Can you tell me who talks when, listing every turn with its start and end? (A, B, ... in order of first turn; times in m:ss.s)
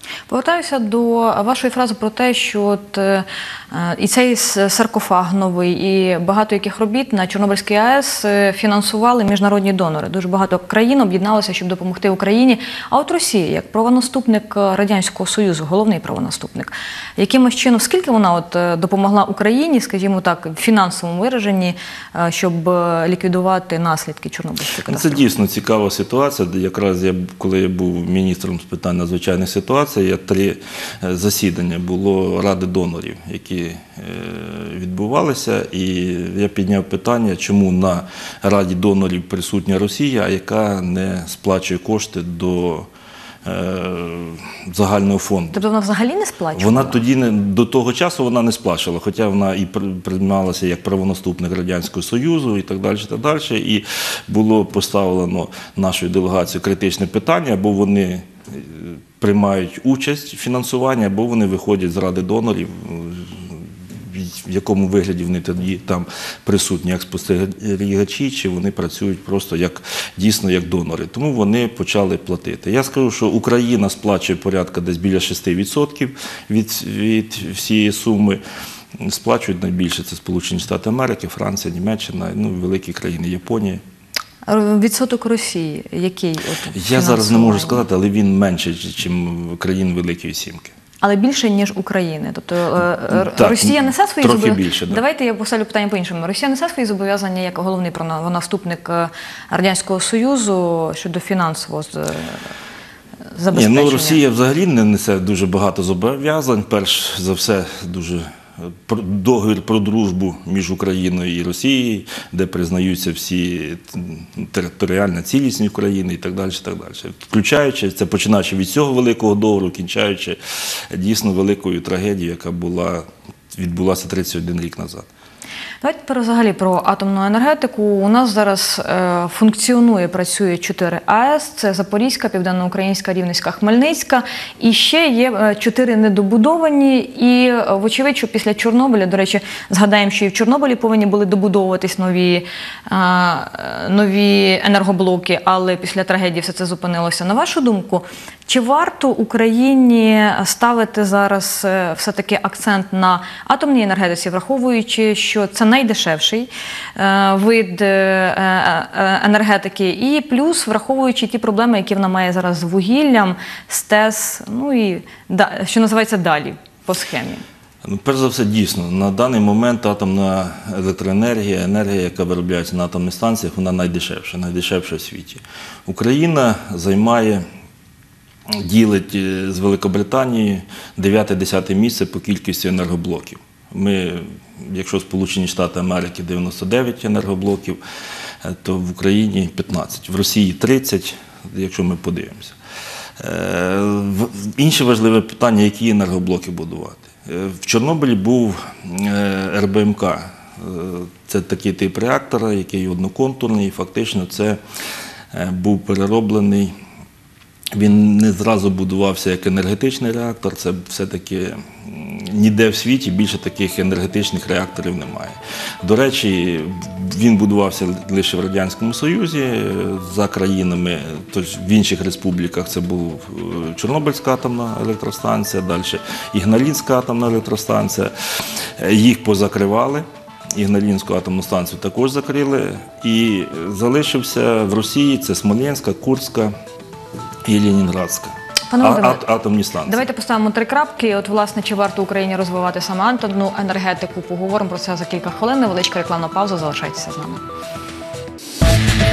0:00.3-0:25.2 A
0:24.9-0:42.9 B
0:43.4-0:45.6 B
0:45.5-0:47.0 A
0:46.6-1:18.4 B
1:19.0-1:23.8 B
1:24.5-1:27.8 A
1:26.7-1:30.7 B
1:31.0-1:42.4 A
1:33.1-1:35.0 B
1:43.3-1:44.2 A
1:43.5-2:05.1 B
2:05.8-2:47.4 A
2:47.8-2:57.4 B
2:58.5-3:07.8 B
3:08.4-3:12.6 B
3:13.2-3:24.6 B
3:25.3-3:26.7 B
3:27.7-3:56.5 B
3:57.5-4:00.0 B
3:58.7-3:59.2 A
3:59.9-4:07.4 A